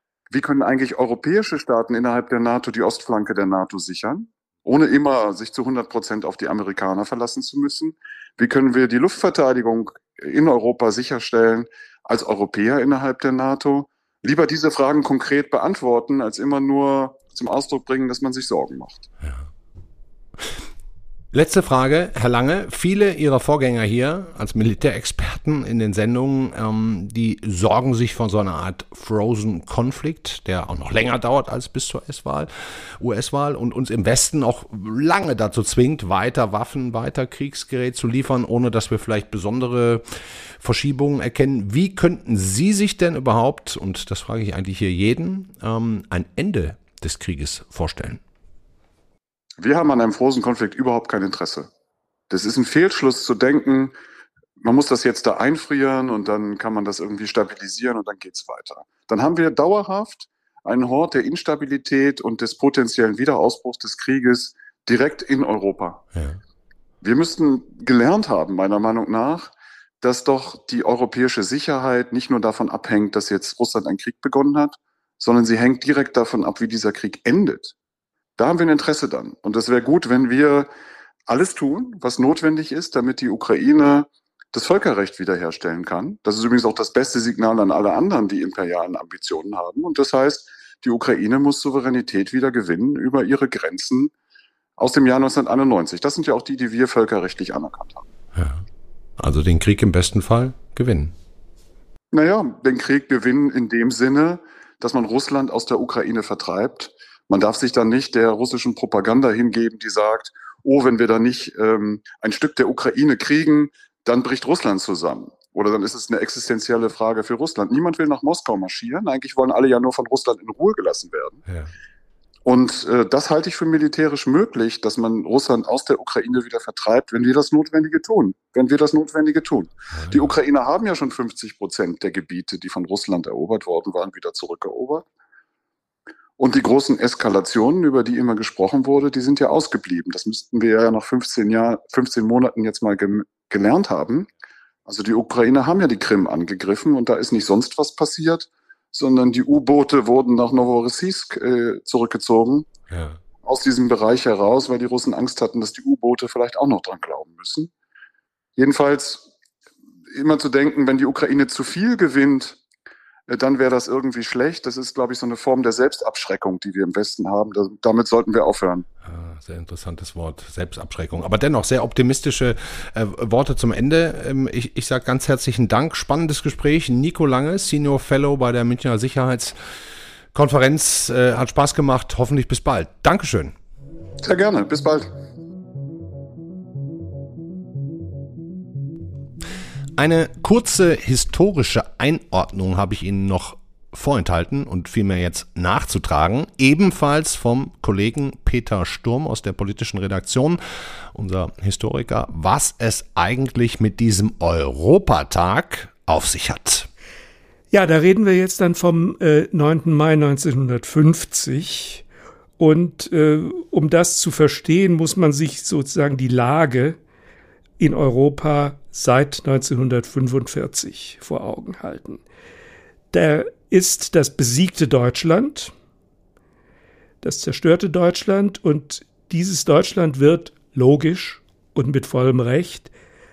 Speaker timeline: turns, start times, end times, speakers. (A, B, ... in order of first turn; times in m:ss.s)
0:00.3-0:19.1 A
0:21.3-0:40.0 B
0:40.6-0:48.2 B
0:49.6-0:51.7 A
0:52.3-0:53.9 A
0:54.6-1:06.0 A
1:06.1-1:06.4 B
1:07.0-1:17.7 A
1:18.4-1:20.7 A
1:21.3-1:34.1 A
1:34.8-1:38.1 A
1:38.3-1:38.6 B
1:39.2-1:41.1 B
1:42.1-2:01.4 A
2:01.4-2:01.7 B
2:02.4-2:15.0 A
2:09.9-2:10.2 B
2:16.4-2:24.3 A
2:24.8-2:32.7 A
2:32.9-2:33.2 B
2:33.4-2:37.7 A
2:38.6-2:39.2 A
2:40.1-2:42.6 A
2:43.3-2:48.8 A
2:49.0-2:59.6 B
3:00.3-3:03.5 B
3:04.2-3:05.1 A
3:10.0-3:20.6 B
3:21.1-3:26.9 B
3:27.7-3:32.0 C
3:32.6-3:37.0 C
3:37.8-3:42.2 C
3:43.1-3:45.7 C
3:47.2-3:52.9 C